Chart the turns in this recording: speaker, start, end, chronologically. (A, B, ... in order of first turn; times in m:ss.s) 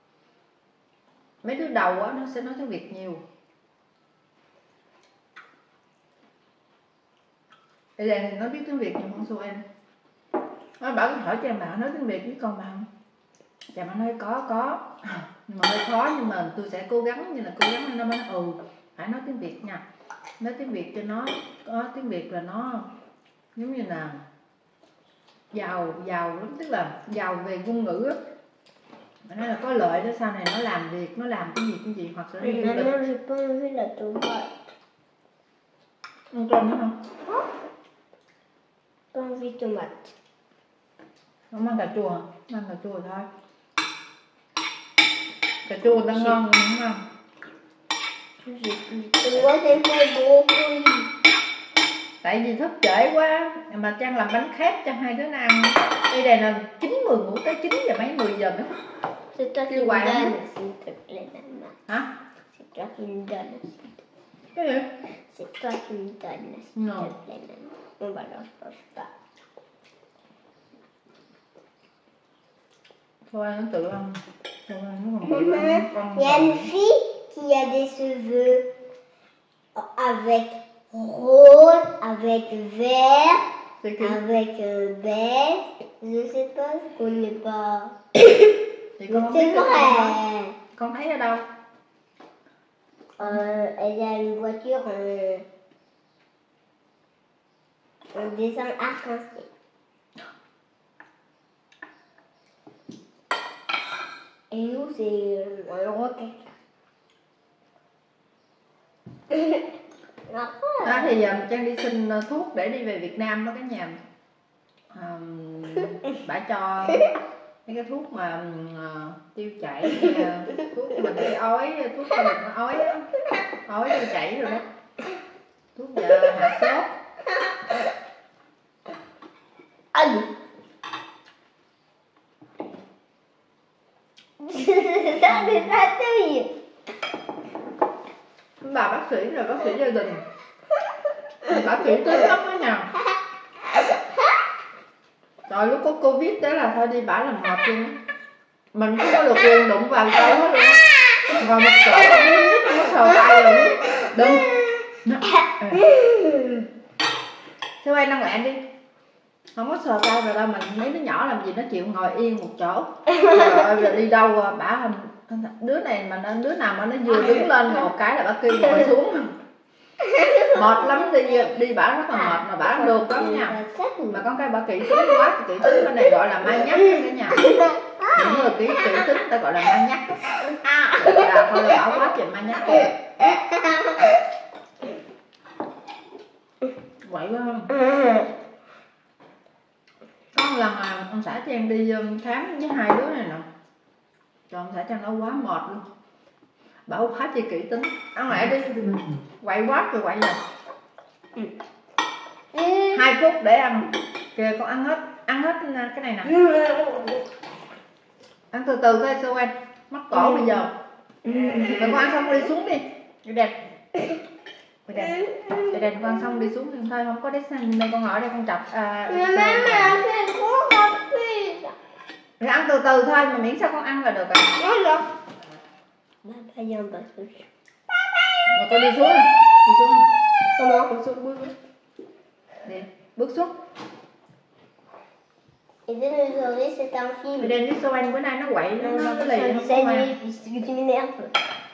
0:01.4-0:03.2 A
0:08.0-0:09.6 A
0:10.8-0:12.9 A
0:13.7-0:19.8 A
0:20.4-0:22.9 A
0:23.6-0:24.2 A
0:25.5-0:28.2 A
0:29.3-0:33.0 A
0:32.4-0:34.5 B
0:36.3-0:36.9 A
0:39.1-0:40.1 B
0:41.5-0:43.3 A
0:45.6-0:47.0 A
0:48.4-0:51.1 B
0:52.2-0:58.8 A
0:59.3-1:01.8 B
0:59.7-1:00.3 A
1:02.5-1:04.0 B
1:04.5-1:04.9 A
1:05.3-1:09.1 B
1:06.8-1:07.1 A
1:13.3-1:16.7 A
1:15.2-1:18.6 B
1:19.8-1:23.4 B
1:23.8-1:24.2 A
1:24.0-1:28.4 B
1:29.0-1:30.2 A
1:29.1-1:30.5 B
1:30.7-1:31.4 A
1:33.2-1:35.4 B
1:38.1-1:39.5 B
1:44.5-1:46.5 B
1:49.3-1:49.6 B
1:50.3-1:51.2 B
1:50.8-1:54.0 A
1:54.9-1:57.1 A
1:57.6-2:03.1 A
2:03.7-2:04.6 A
2:05.7-2:06.9 A
2:09.9-2:10.3 B
2:14.4-2:16.5 B
2:18.6-2:20.2 A
2:21.4-2:22.9 A
2:25.5-2:28.0 A
2:28.7-2:30.8 A
2:31.4-2:34.5 A
2:35.0-2:35.9 A
2:35.9-2:36.6 B
2:37.8-2:38.6 A
2:39.5-2:49.3 A
2:47.2-2:47.5 B
2:50.0-2:51.4 B
2:50.5-2:53.6 A
2:52.1-2:54.2 B
2:54.1-2:57.5 A
2:57.4-2:58.6 B
2:58.1-3:02.9 A
3:03.2-3:04.2 B
3:07.0-3:07.7 A
3:07.7-3:08.3 B
3:10.3-3:13.4 A
3:14.5-3:15.8 A
3:16.9-3:20.4 A
3:22.5-3:23.0 B
3:22.9-3:26.3 A
3:26.2-3:27.2 B
3:28.5-3:30.7 A
3:30.1-3:30.6 B
3:31.2-3:32.3 B
3:31.8-3:33.5 A
3:34.9-3:40.0 A
3:35.0-3:36.0 B
3:39.1-3:41.7 B
3:42.4-3:44.6 A
3:44.6-3:45.1 B
3:46.2-3:47.5 B
3:48.5-3:50.0 A
3:50.5-3:50.9 B
3:50.9-3:51.5 A
3:52.6-3:53.5 A
3:55.9-3:57.6 B
3:57.4-4:00.1 A
3:58.8-4:01.3 B